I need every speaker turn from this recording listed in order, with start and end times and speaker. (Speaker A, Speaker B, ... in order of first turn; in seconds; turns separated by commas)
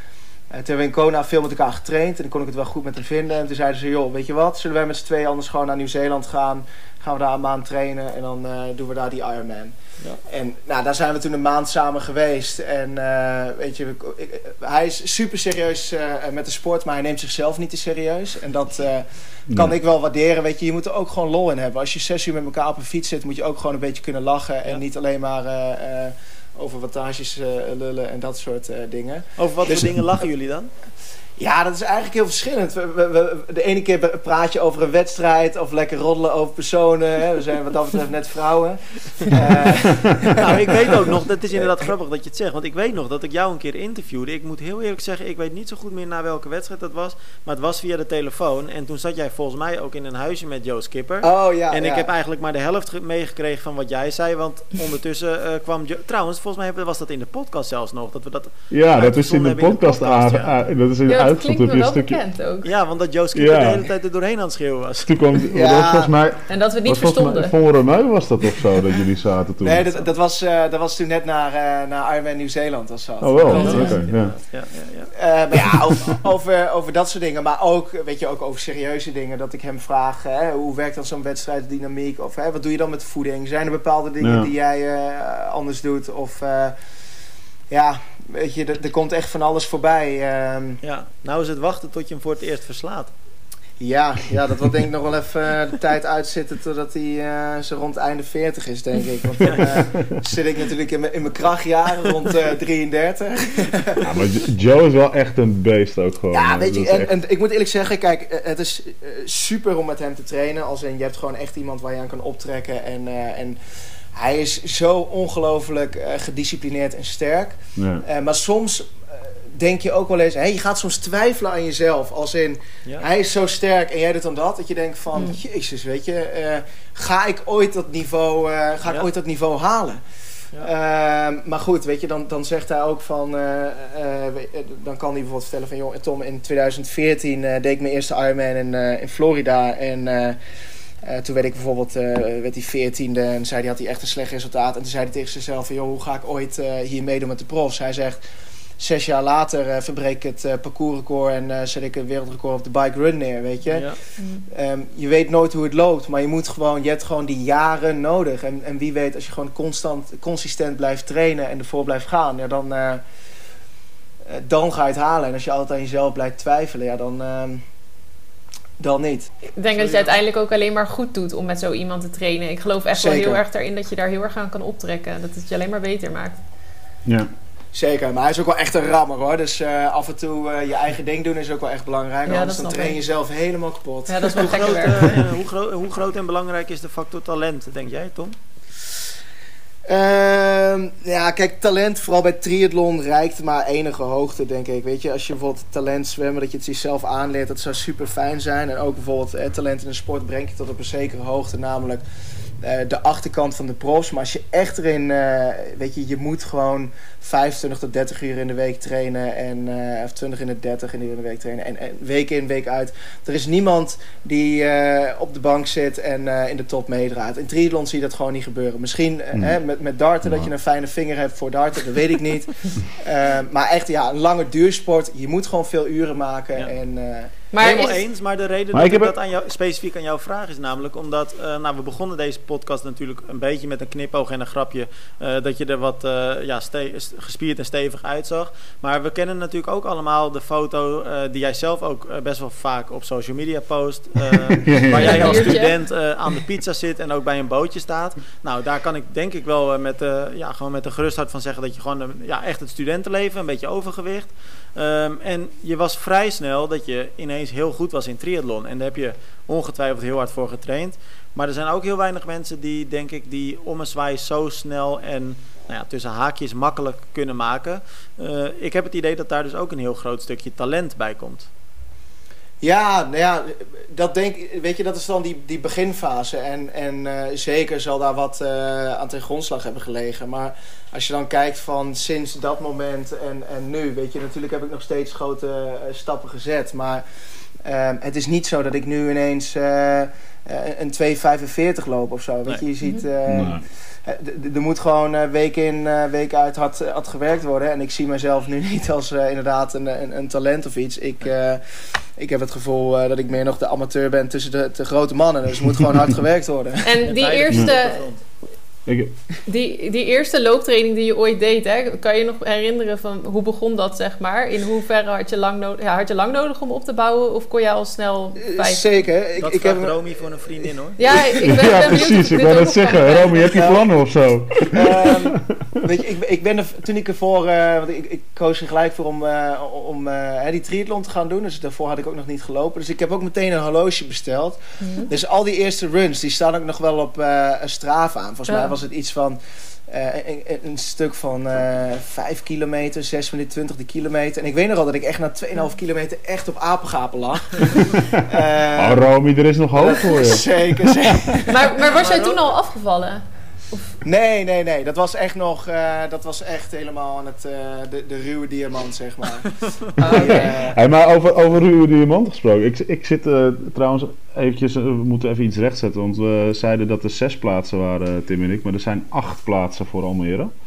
Speaker A: 0.5-9.7, Speaker A: 10.2-29.9, Speaker B: 19.5-19.7, Speaker C: 29.4-30.7, Speaker A: 31.4-40.9, Speaker C: 40.4-60.5, Speaker A: 51.2-52.1, Speaker B: 58.7-62.2, Speaker D: 61.1-62.7, Speaker C: 62.6-65.1, Speaker B: 63.3-63.9, Speaker B: 65.0-69.8, Speaker A: 65.5-66.1, Speaker D: 66.5-67.5, Speaker A: 69.6-74.0, Speaker B: 73.2-74.3, Speaker C: 73.4-75.1, Speaker D: 73.5-74.0, Speaker A: 75.2-86.7, Speaker B: 84.2-84.5, Speaker A: 87.7-90.8, Speaker C: 90.8-93.1, Speaker A: 93.8-104.1, Speaker B: 99.6-100.0, Speaker B: 104.0-107.1, Speaker A: 106.3-113.6, Speaker A: 114.1-119.0, Speaker B: 117.8-118.0, Speaker A: 119.5-130.0, Speaker A: 130.6-140.4, Speaker A: 141.0-148.2, Speaker A: 148.8-153.9, Speaker C: 153.7-154.0, Speaker D: 154.2-154.4, Speaker A: 154.5-163.0, Speaker A: 164.3-167.6, Speaker A: 168.8-169.3, Speaker D: 169.6-176.4, Speaker C: 169.7-170.1, Speaker A: 172.9-173.4, Speaker A: 177.7-184.7, Speaker D: 182.3-183.0, Speaker D: 184.1-185.1, Speaker C: 184.3-188.3, Speaker A: 189.9-202.0, Speaker A: 202.6-227.3, Speaker D: 227.5-228.0, Speaker C: 227.6-271.5, Speaker B: 228.7-229.1, Speaker B: 244.6-245.5, Speaker D: 244.9-245.8, Speaker A: 272.6-287.0, Speaker A: 287.6-306.9, Speaker B: 293.2-293.6, Speaker D: 306.8-308.0, Speaker C: 307.0-308.2, Speaker B: 308.9-309.4, Speaker D: 309.4-318.8, Speaker A: 318.4-320.0, Speaker C: 319.4-321.0, Speaker D: 321.0-323.7, Speaker B: 321.4-325.5, Speaker A: 323.5-323.9, Speaker A: 324.6-349.1, Speaker D: 334.8-335.1, Speaker D: 338.5-338.8, Speaker B: 347.9-348.2, Speaker B: 348.8-351.2, Speaker A: 349.7-351.8, Speaker D: 351.5-353.2, Speaker C: 351.8-352.5, Speaker A: 354.0-360.8, Speaker D: 360.0-360.7, Speaker B: 360.1-370.5